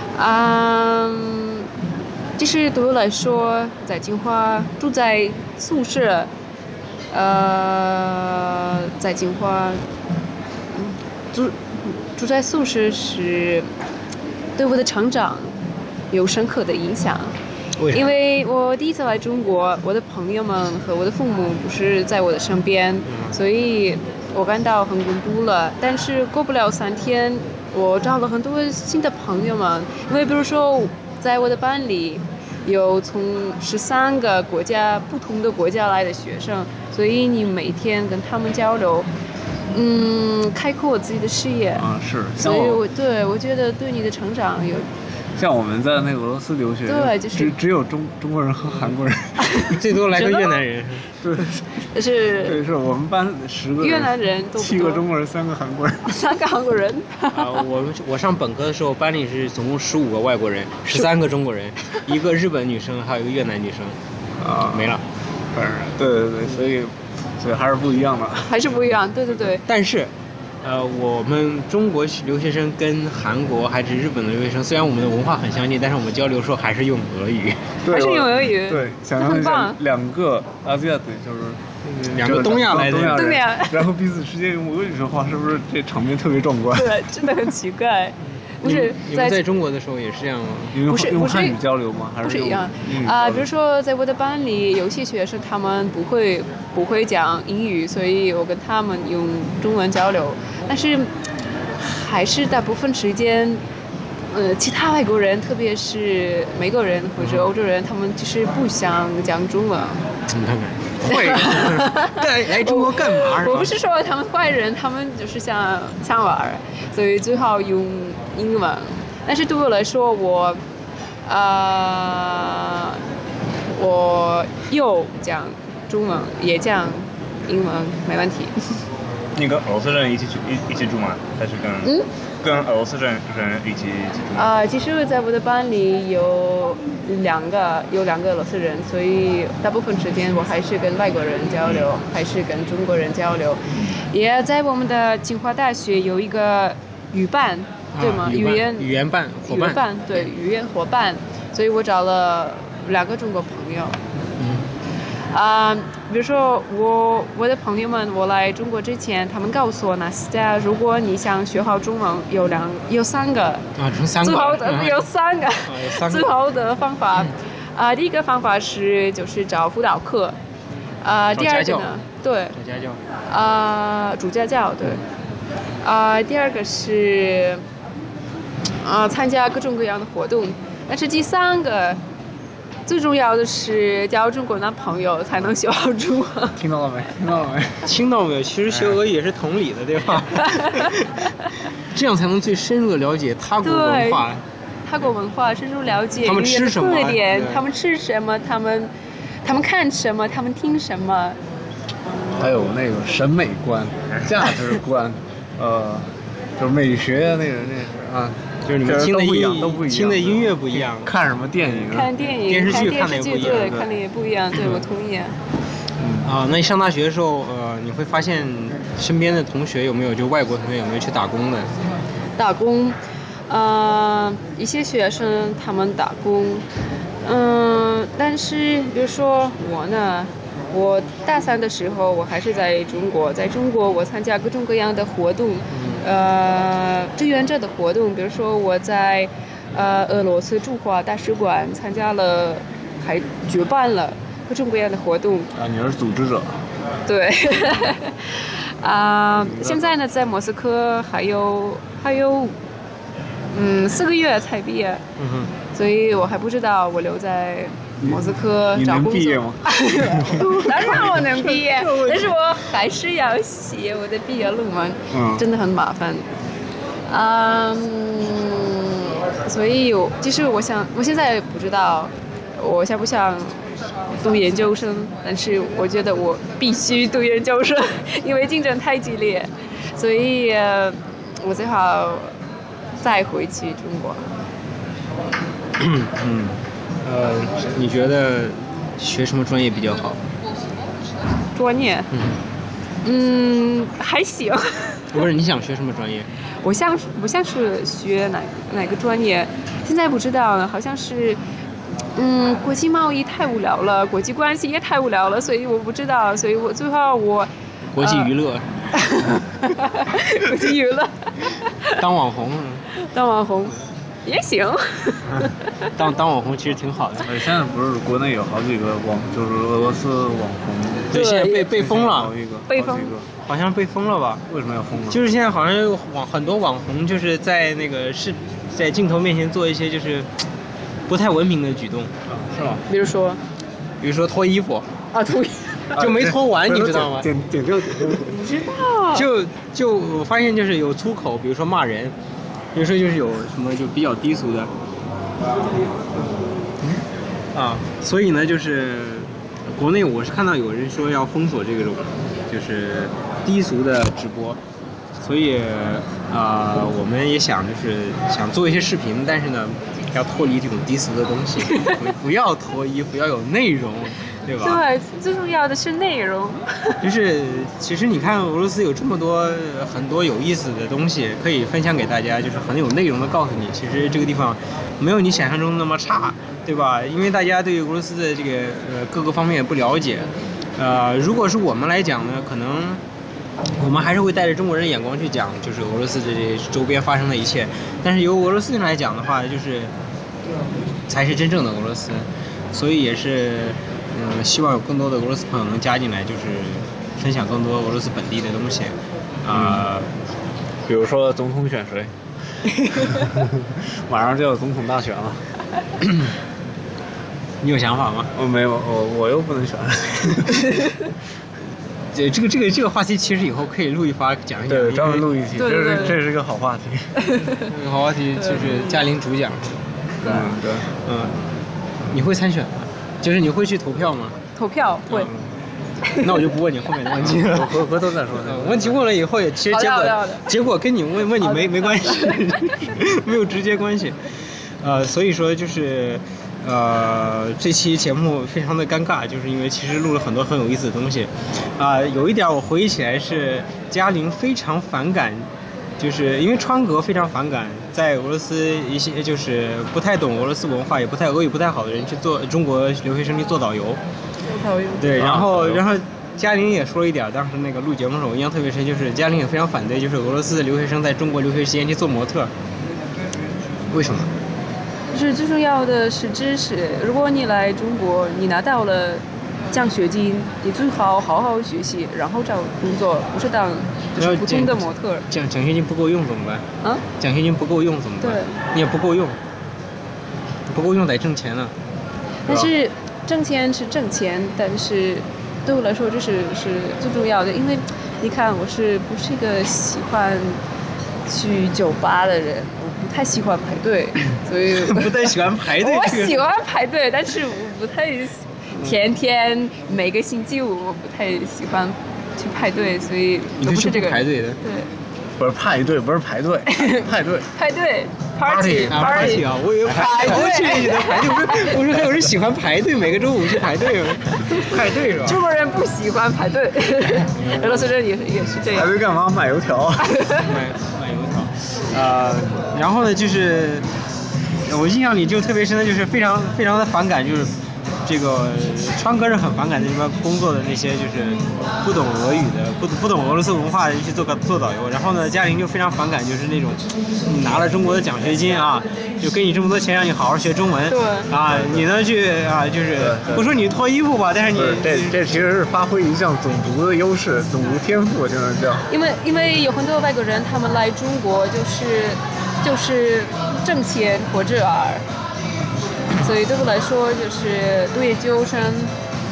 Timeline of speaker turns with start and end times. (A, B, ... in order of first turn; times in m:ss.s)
0:00.1-0:01.7 A
0:02.4-0:06.3 A
0:07.1-0:09.8 A
0:10.7-0:13.7 A
0:14.6-0:15.5 A
0:16.1-0:17.3 A
0:17.8-0:18.0 B
0:17.9-0:39.1 A
0:23.0-0:23.3 B
0:39.7-0:44.9 A
0:41.8-0:42.8 C
0:45.4-0:49.8 C
0:46.8-0:47.5 A
0:49.4-0:50.6 A
0:49.7-0:51.2 B
0:51.2-0:51.7 C
0:51.9-0:52.6 A
0:52.4-0:56.2 C
0:53.8-0:55.0 A
0:56.1-0:57.6 A
0:57.3-1:04.0 B
1:04.4-1:05.0 C
1:04.6-1:05.0 B
1:05.5-1:08.7 C
1:08.5-1:09.6 A
1:09.6-1:10.1 B
1:10.6-1:17.7 B
1:17.8-1:19.8 A
1:17.8-1:26.9 C
1:21.9-1:23.4 B
1:23.1-1:23.9 A
1:26.7-1:29.4 A
1:28.6-1:30.9 B
1:30.7-1:33.5 C
1:30.9-1:31.6 A
1:32.2-1:41.1 A
1:41.8-1:43.6 A
1:44.3-1:50.0 A
1:47.2-1:47.5 B
1:50.3-1:53.7 B
1:51.0-2:00.6 A
2:01.2-2:03.0 A
2:03.7-2:08.5 A
2:09.3-2:14.5 D
2:11.8-2:12.1 A
2:14.3-2:23.6 A
2:24.1-2:28.9 A
2:27.9-2:29.9 B
2:29.5-2:34.0 A
2:34.4-2:34.7 B
2:35.3-2:43.7 A
2:43.8-2:45.0 B
2:44.2-2:50.4 A
2:45.6-2:46.3 B
2:51.0-2:52.6 A
2:51.3-2:52.0 B
2:52.5-2:53.0 B
2:53.3-2:55.0 A
2:55.8-2:57.6 A
2:58.8-3:02.0 A
3:02.9-3:06.6 A
3:06.6-3:07.9 C
3:07.8-3:11.3 B
3:08.7-3:09.0 C
3:11.9-3:14.4 B
3:13.6-3:14.2 A
3:14.8-3:18.9 A
3:16.2-3:17.6 B
3:19.4-3:21.4 A
3:22.4-3:32.1 C
3:28.6-3:33.9 B
3:31.9-3:35.4 A
3:36.0-3:36.3 C
3:36.2-3:41.7 B
3:42.4-3:43.0 A
3:43.5-3:46.6 A
3:47.2-4:05.5 A
3:55.7-3:56.0 B
4:05.5-4:06.5 C
4:07.1-4:12.6 A
4:09.6-4:09.8 B
4:13.5-4:15.0 A
4:15.2-4:15.5 B
4:15.7-4:26.3 A
4:18.0-4:20.7 C
4:20.4-4:22.3 B
4:25.1-4:25.4 C
4:27.1-4:42.3 A
4:43.0-4:44.2 A
4:45.8-4:50.2 B
4:51.5-4:52.1 A
4:52.1-4:52.4 B
4:53.0-4:55.0 A
4:55.1-4:56.3 B
4:56.6-5:01.4 A
5:02.2-5:08.3 A
5:08.0-5:08.9 B
5:08.9-5:12.0 A
5:12.0-5:12.9 B
5:12.9-5:15.9 A
5:15.9-5:17.3 B
5:17.2-5:23.3 C
5:21.1-5:22.4 B
5:21.1-5:21.7 A
5:22.7-5:23.1 A
5:23.4-5:24.4 B
5:24.5-5:25.2 C
5:25.1-5:30.3 B
5:31.1-5:32.1 B
5:32.3-5:32.8 C
5:32.9-5:33.4 A
5:34.0-5:34.9 B
5:35.1-5:35.8 A
5:35.9-5:37.3 B
5:35.9-5:38.4 C
5:38.2-5:39.3 A
5:39.1-5:42.1 B
5:42.7-5:44.7 B
5:47.5-5:54.6 B
5:55.2-6:04.8 B
6:04.6-6:07.0 A
6:07.0-6:23.0 B
6:23.8-6:29.9 B
6:31.1-6:40.1 B
6:39.5-6:39.8 C
6:40.9-6:42.1 C
6:42.9-6:45.4 C
6:46.0-6:46.3 B
6:47.6-6:48.3 B
6:48.3-6:50.7 C
6:52.1-6:55.3 B
6:54.7-6:57.1 C
6:55.6-6:56.1 A
6:57.2-6:57.7 A
6:57.5-6:59.8 B
6:58.4-6:59.0 A
7:00.2-7:00.9 C
7:01.0-7:01.4 B
7:02.1-7:04.4 B
7:04.6-7:05.3 A
7:05.1-7:05.4 B
7:06.0-7:06.5 A
7:06.2-7:14.2 B
7:07.3-7:09.0 C
7:09.7-7:10.5 A
7:11.4-7:12.7 A
7:14.8-7:25.5 B
7:26.0-7:34.0 B
7:34.4-7:35.2 A
7:35.0-7:42.5 B
7:35.2-7:35.8 C
7:43.9-7:44.3 B
7:45.1-7:55.2 A
7:54.2-7:56.7 B
7:57.2-7:59.4 B
7:58.2-7:58.6 A
8:00.7-8:01.7 B
8:02.4-8:10.6 A
8:11.2-8:24.9 A
8:14.7-8:16.4 B
8:23.6-8:24.6 B
8:25.4-8:27.5 C
8:26.7-8:31.8 A
8:28.4-8:35.4 B
8:35.2-8:39.0 A
8:37.2-8:37.9 B
8:38.7-8:40.2 C
8:40.1-8:40.5 A
8:40.4-8:43.9 B
8:44.6-8:47.5 B
8:48.0-9:05.2 B
9:00.9-9:01.3 A
9:01.5-9:01.9 C
9:03.0-9:03.5 C
9:04.5-9:08.9 C
9:08.9-9:15.0 A
9:16.2-9:18.9 A